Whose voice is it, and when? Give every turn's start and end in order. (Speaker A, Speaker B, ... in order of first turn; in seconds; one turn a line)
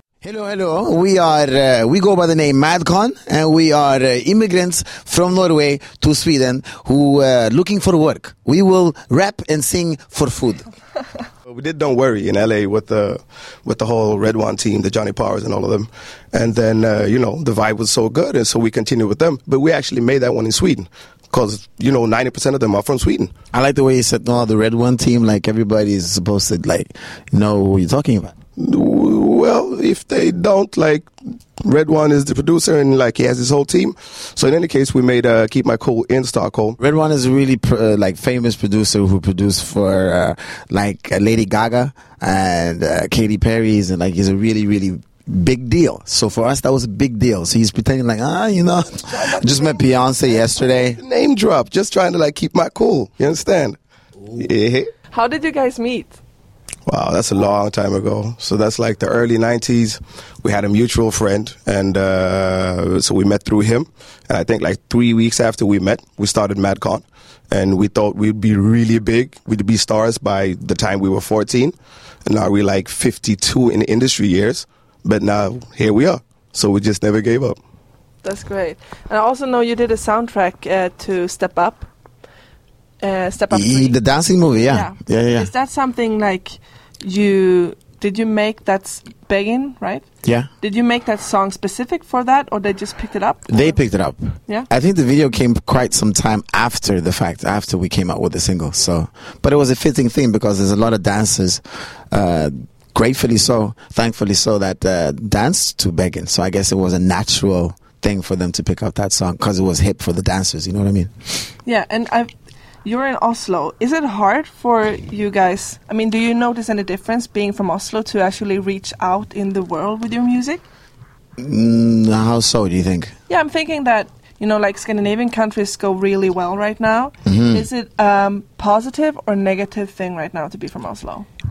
Speaker A: 0.2-10.7
Speaker B: 11.5-23.3
Speaker A: 23.5-28.3
Speaker B: 28.6-31.1
Speaker B: 31.6-36.8
Speaker A: 36.8-51.0
Speaker B: 49.1-53.8
Speaker B: 54.3-54.9
Speaker C: 55.1-56.2
Speaker B: 56.9-71.7
Speaker B: 72.2-77.6
Speaker C: 78.2-81.9
Speaker C: 83.0-84.0
Speaker A: 83.5-85.5
Speaker C: 84.7-90.0
Speaker A: 90.2-90.5
Speaker C: 90.6-93.8
Speaker A: 93.5-111.1
Speaker C: 111.6-112.3
Speaker C: 112.8-120.6
Speaker A: 121.4-123.1
Speaker C: 123.3-131.3
Speaker A: 127.2-127.7